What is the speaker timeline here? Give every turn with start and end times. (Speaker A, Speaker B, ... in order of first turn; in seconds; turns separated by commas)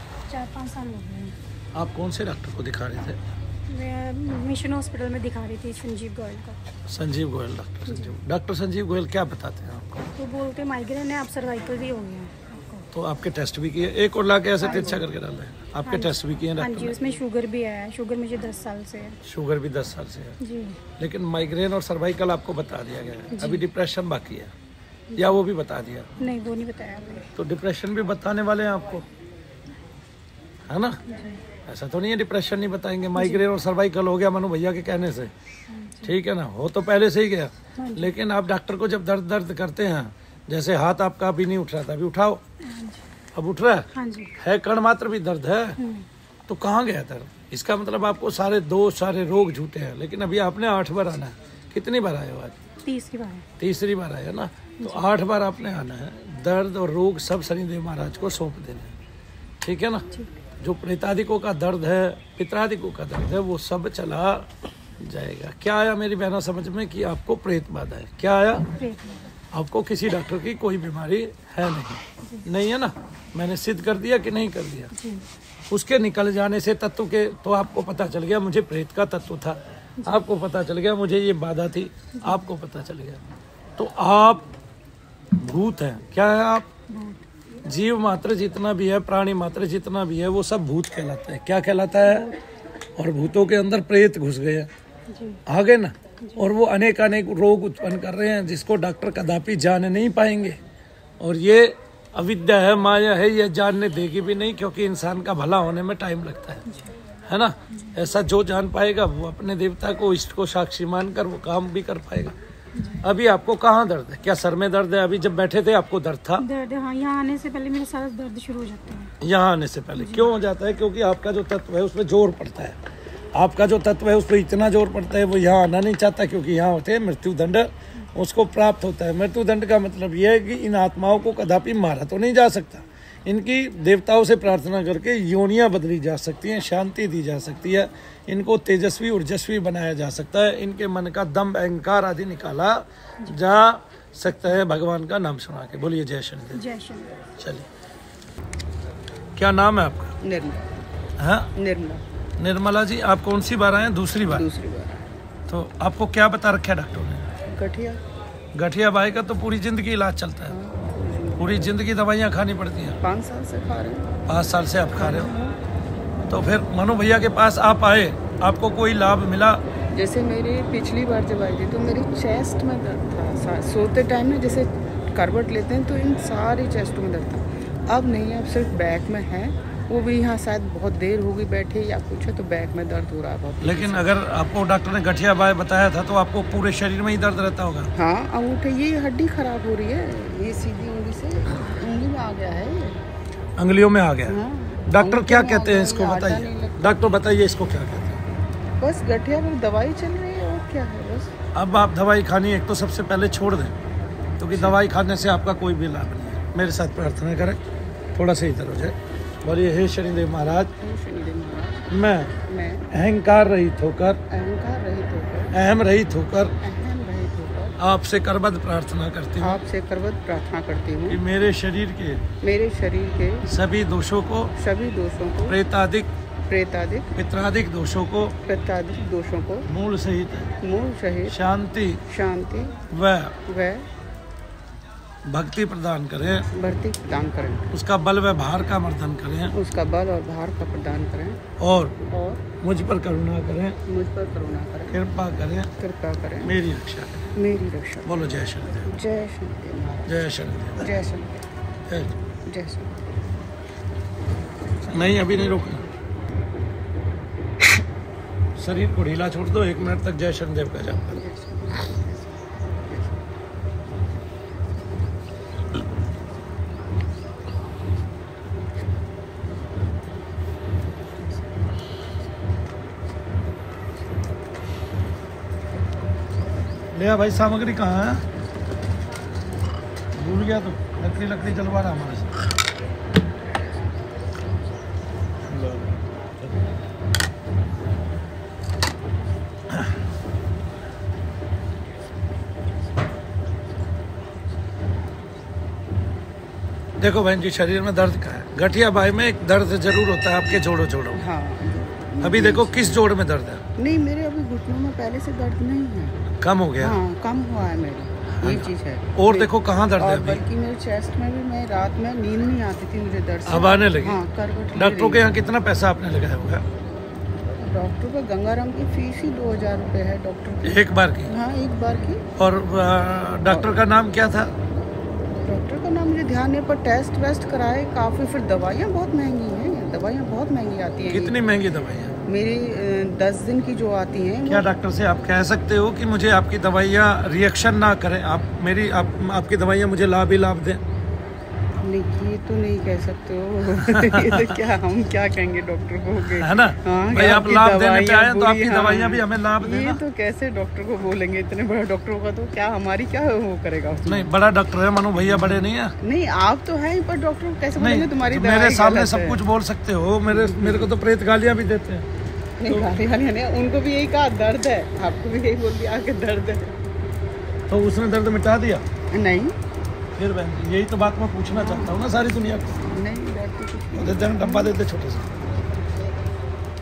Speaker A: 0.3-1.4, Speaker B: 1.7-3.2, Speaker A: 3.7-6.6, Speaker B: 6.9-10.1, Speaker A: 7.9-8.1, Speaker A: 10.2-12.9, Speaker B: 12.9-17.0, Speaker A: 14.6-15.0, Speaker A: 15.8-19.2, Speaker B: 19.2-20.4, Speaker A: 20.4-20.8, Speaker B: 21.0-24.5, Speaker A: 23.3-23.7, Speaker A: 25.1-25.4, Speaker B: 25.2-26.1, Speaker A: 26.2-27.3, Speaker B: 27.4-29.1, Speaker B: 30.7-31.0, Speaker A: 31.1-31.4, Speaker B: 31.6-35.3, Speaker A: 33.2-33.4, Speaker A: 35.7-36.1, Speaker B: 36.0-42.4, Speaker A: 37.8-38.2, Speaker A: 42.6-43.0, Speaker B: 43.3-45.8, Speaker A: 43.9-44.3, Speaker A: 45.8-46.1, Speaker B: 46.5-52.6, Speaker A: 52.8-53.5, Speaker B: 53.6-58.9, Speaker A: 54.8-55.1, Speaker B: 59.6-60.0, Speaker B: 60.6-64.5, Speaker B: 65.0-68.7, Speaker A: 68.7-69.2, Speaker B: 69.5-74.9, Speaker A: 74.9-75.2, Speaker B: 75.7-83.2, Speaker A: 80.0-80.2, Speaker A: 82.2-82.4, Speaker B: 83.8-84.5, Speaker B: 85.4-86.7, Speaker A: 86.9-87.2, Speaker B: 87.6-92.3, Speaker A: 92.0-92.4, Speaker B: 93.0-94.7, Speaker A: 95.1-95.4, Speaker B: 95.5-100.6, Speaker A: 96.2-96.5, Speaker B: 101.2-106.6, Speaker A: 106.7-106.9, Speaker B: 107.3-112.3, Speaker A: 112.7-113.0, Speaker B: 113.0-116.5, Speaker A: 116.4-119.1, Speaker B: 119.2-122.8, Speaker A: 120.0-120.3, Speaker B: 123.3-146.6, Speaker A: 146.5-147.2, Speaker B: 147.4-147.6, Speaker B: 149.4-150.2, Speaker C: 150.2-150.7, Speaker B: 151.2-151.5, Speaker C: 151.6-152.0, Speaker B: 152.4-154.4, Speaker C: 154.2-155.1, Speaker B: 155.5-157.3, Speaker C: 157.5-158.0, Speaker B: 158.5-160.6, Speaker C: 160.5-161.6, Speaker B: 161.4-163.0, Speaker C: 163.0-164.1, Speaker B: 164.3-165.3, Speaker C: 164.9-165.6, Speaker B: 166.3-169.6, Speaker C: 169.9-184.1, Speaker B: 183.6-187.9, Speaker C: 187.9-193.0, Speaker B: 193.6-198.2, Speaker C: 194.3-196.8, Speaker C: 198.8-201.3, Speaker B: 201.5-203.8, Speaker B: 204.4-207.6, Speaker C: 204.5-204.8, Speaker B: 208.2-210.7, Speaker C: 210.8-211.9, Speaker B: 211.9-212.3, Speaker C: 212.5-212.9, Speaker B: 212.9-214.2, Speaker C: 214.3-215.5, Speaker B: 215.5-216.5, Speaker C: 216.6-217.8, Speaker B: 217.8-219.6, Speaker C: 219.4-221.2, Speaker B: 221.1-222.2, Speaker C: 222.4-223.4, Speaker B: 223.4-224.5, Speaker C: 224.6-225.6, Speaker B: 225.5-226.1, Speaker C: 226.5-227.1, Speaker B: 227.1-228.3, Speaker C: 228.4-229.7, Speaker B: 229.7-230.5, Speaker C: 230.6-231.3, Speaker B: 231.3-232.0, Speaker C: 232.1-232.7, Speaker B: 232.9-233.3, Speaker C: 233.5-233.9, Speaker B: 235.2-236.5, Speaker C: 236.5-237.7, Speaker B: 237.7-239.5, Speaker C: 239.5-241.4, Speaker B: 241.6-241.9, Speaker C: 242.0-242.4, Speaker B: 242.6-243.8, Speaker C: 243.9-245.0, Speaker B: 244.9-245.7, Speaker C: 245.8-246.5, Speaker B: 246.4-247.3, Speaker C: 247.3-248.3, Speaker B: 248.0-248.9, Speaker C: 248.8-250.2, Speaker B: 250.1-250.9, Speaker C: 250.8-251.3, Speaker B: 251.9-252.2, Speaker C: 252.5-252.9, Speaker B: 254.9-255.8, Speaker C: 255.1-255.7, Speaker B: 258.6-261.2, Speaker C: 261.1-262.2, Speaker B: 276.9-278.2, Speaker B: 280.1-282.4, Speaker B: 285.4-286.5, Speaker B: 297.0-301.3, Speaker C: 301.1-303.0, Speaker B: 302.2-303.6, Speaker C: 303.8-306.2, Speaker B: 306.3-307.0, Speaker C: 306.8-315.3, Speaker B: 308.3-310.4, Speaker B: 313.4-314.2, Speaker B: 314.7-316.6, Speaker C: 317.6-322.2, Speaker B: 320.6-321.3, Speaker B: 322.4-324.5, Speaker C: 323.4-323.8, Speaker C: 325.4-331.4, Speaker B: 331.1-332.2, Speaker C: 332.2-334.6, Speaker B: 334.5-340.8, Speaker C: 341.8-354.3, Speaker B: 343.7-344.6, Speaker B: 346.4-350.0, Speaker B: 354.0-355.9, Speaker C: 355.2-359.4, Speaker B: 357.8-362.1, Speaker C: 360.3-360.9, Speaker C: 362.6-366.8, Speaker B: 367.7-368.8, Speaker C: 369.1-369.6, Speaker B: 370.2-372.8, Speaker C: 371.5-372.0, Speaker C: 372.8-374.7, Speaker B: 373.9-375.3